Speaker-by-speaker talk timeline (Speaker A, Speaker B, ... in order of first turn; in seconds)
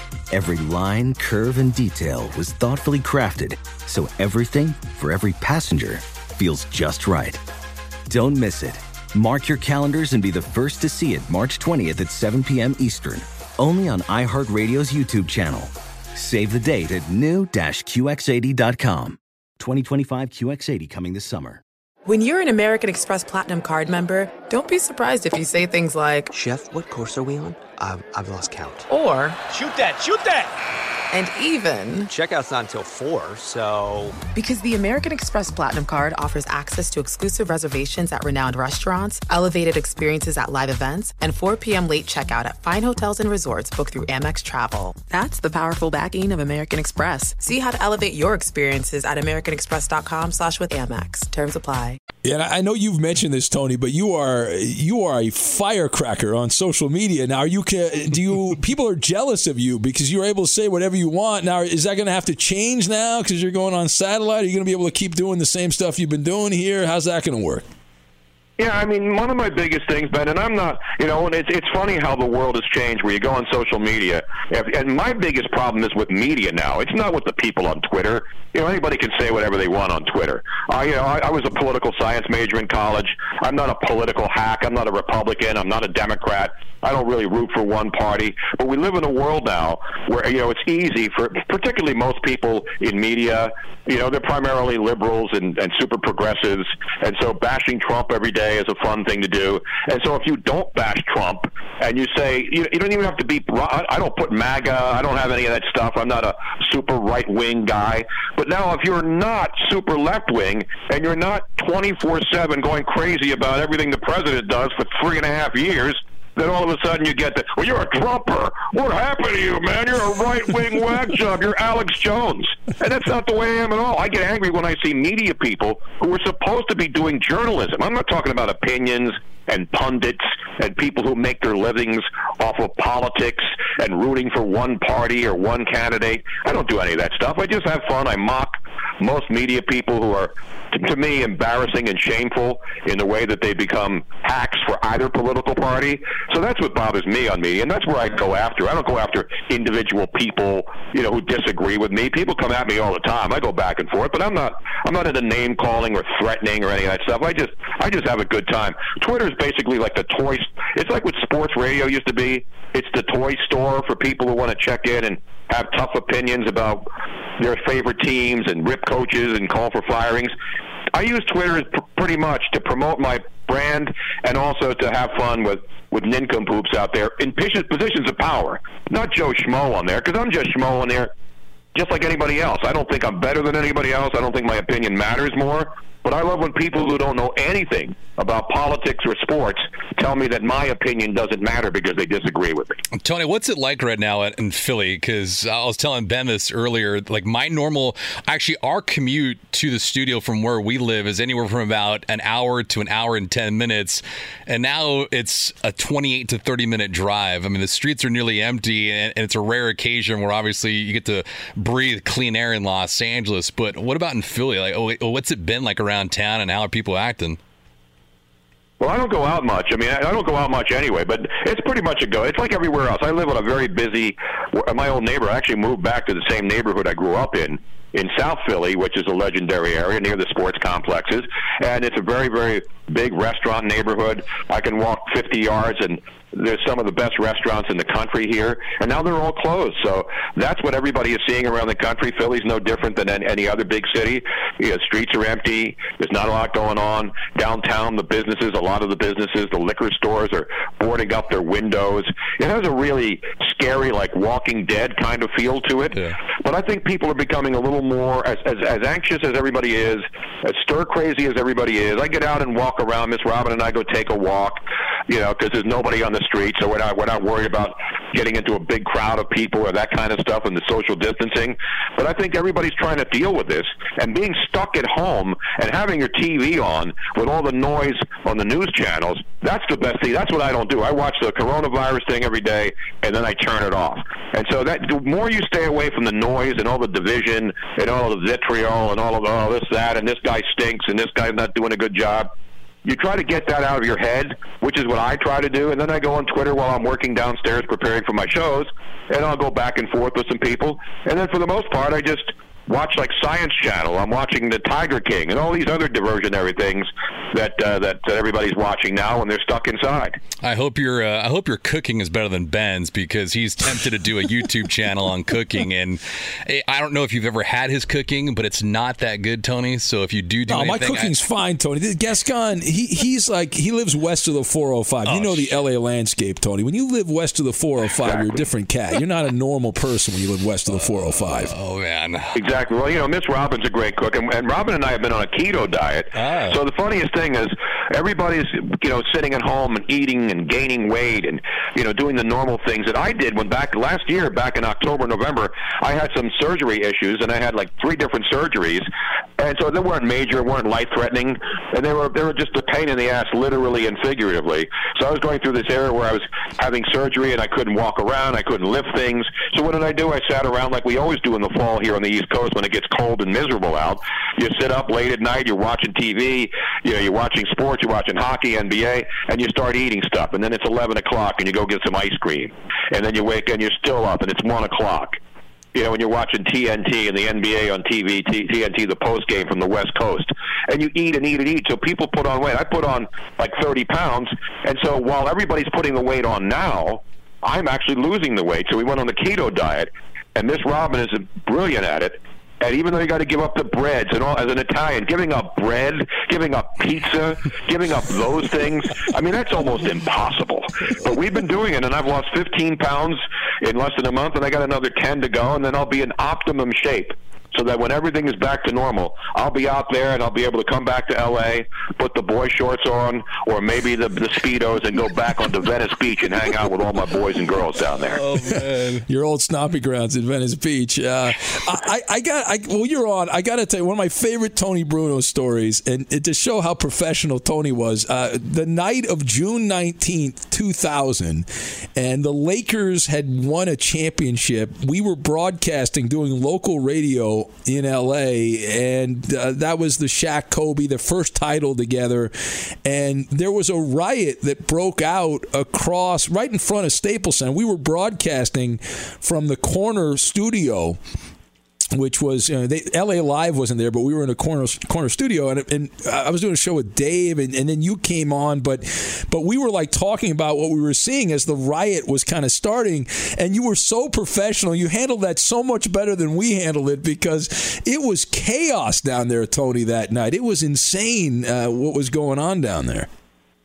Speaker A: 0.3-7.4, 8.1-21.6
Speaker B: 22.1-26.3, 28.9-29.4, 31.1-32.1, 34.3-52.0
Speaker C: 26.3-28.8, 32.1-34.2
Speaker D: 52.2-67.7, 320.5-331.5, 419.0-451.0, 451.9-473.1
Speaker E: 68.6-166.8, 167.4-170.3, 170.9-181.1, 181.7-192.8, 218.8-292.3, 292.8-310.2, 332.3-348.8, 349.4-375.2, 375.7-418.2
Speaker F: 192.9-217.4, 310.4-321.2, 325.1-325.6, 330.8-332.3, 336.1-336.6, 418.1-419.0